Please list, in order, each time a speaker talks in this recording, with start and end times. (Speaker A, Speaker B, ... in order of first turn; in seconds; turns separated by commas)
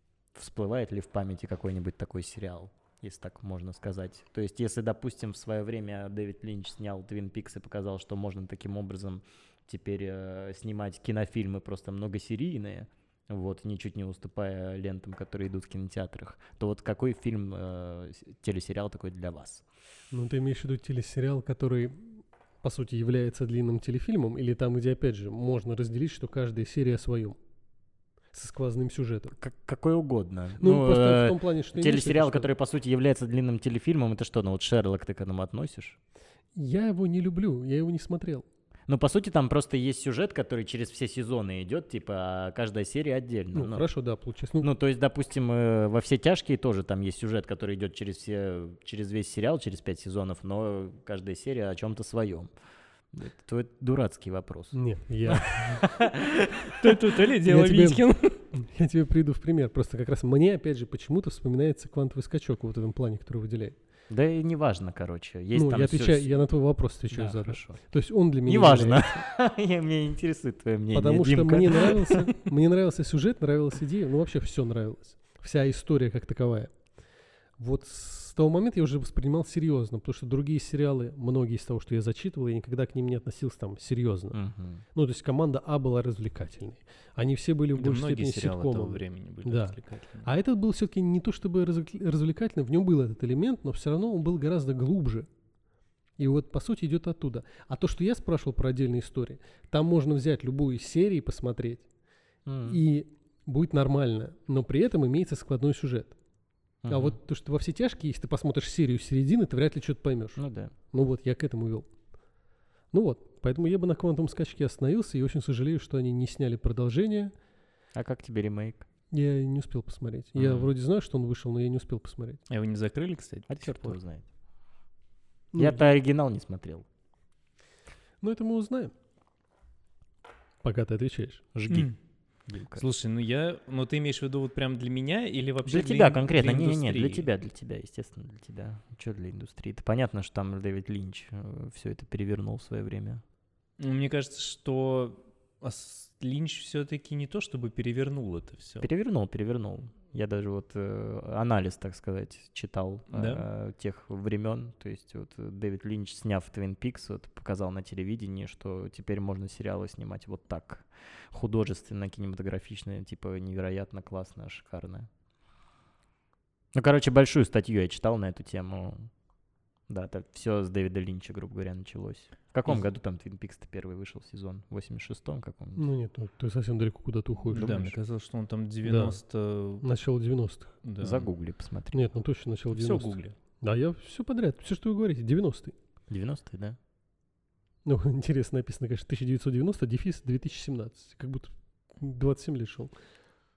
Speaker A: 0.3-19.6, Speaker B: 20.1-27.4, Speaker B: 28.3-29.4, Speaker A: 29.4-36.0, Speaker B: 30.6-32.5, Speaker B: 36.5-38.5, Speaker A: 38.9-43.9, Speaker B: 43.5-44.7, Speaker A: 44.6-52.5, Speaker A: 53.1-54.8, Speaker B: 54.7-55.8, Speaker A: 55.8-56.9, Speaker C: 56.8-58.4, Speaker B: 57.5-58.0, Speaker B: 58.5-63.8, Speaker A: 64.1-66.4, Speaker B: 65.5-69.2, Speaker A: 67.1-67.8, Speaker A: 68.5-72.2, Speaker B: 70.9-76.7, Speaker B: 77.6-84.4, Speaker A: 84.3-84.8, Speaker B: 84.9-95.3, Speaker C: 87.8-90.3, Speaker B: 96.2-101.9, Speaker A: 102.5-102.8, Speaker B: 102.7-106.2, Speaker A: 106.8-107.2, Speaker B: 106.9-111.9, Speaker A: 110.4-110.7, Speaker B: 112.9-117.3, Speaker A: 117.9-118.9, Speaker B: 119.1-122.4, Speaker A: 120.3-120.7, Speaker C: 122.5-124.0, Speaker A: 123.5-124.2, Speaker B: 125.5-125.9, Speaker A: 125.5-126.8, Speaker B: 128.2-128.9, Speaker B: 130.6-131.4, Speaker A: 131.6-131.9, Speaker C: 131.7-131.9, Speaker A: 132.5-132.9, Speaker C: 132.7-137.3, Speaker A: 135.6-143.2, Speaker C: 143.8-148.9, Speaker A: 148.8-165.1, Speaker C: 153.1-153.4, Speaker A: 166.7-169.1, Speaker A: 169.9-175.8, Speaker B: 175.8-177.9, Speaker C: 177.5-179.8, Speaker B: 178.8-179.2, Speaker B: 179.8-180.7, Speaker C: 180.8-181.3, Speaker A: 181.0-182.0, Speaker B: 181.9-185.7, Speaker C: 182.7-183.3, Speaker A: 186.1-186.8, Speaker B: 187.9-192.9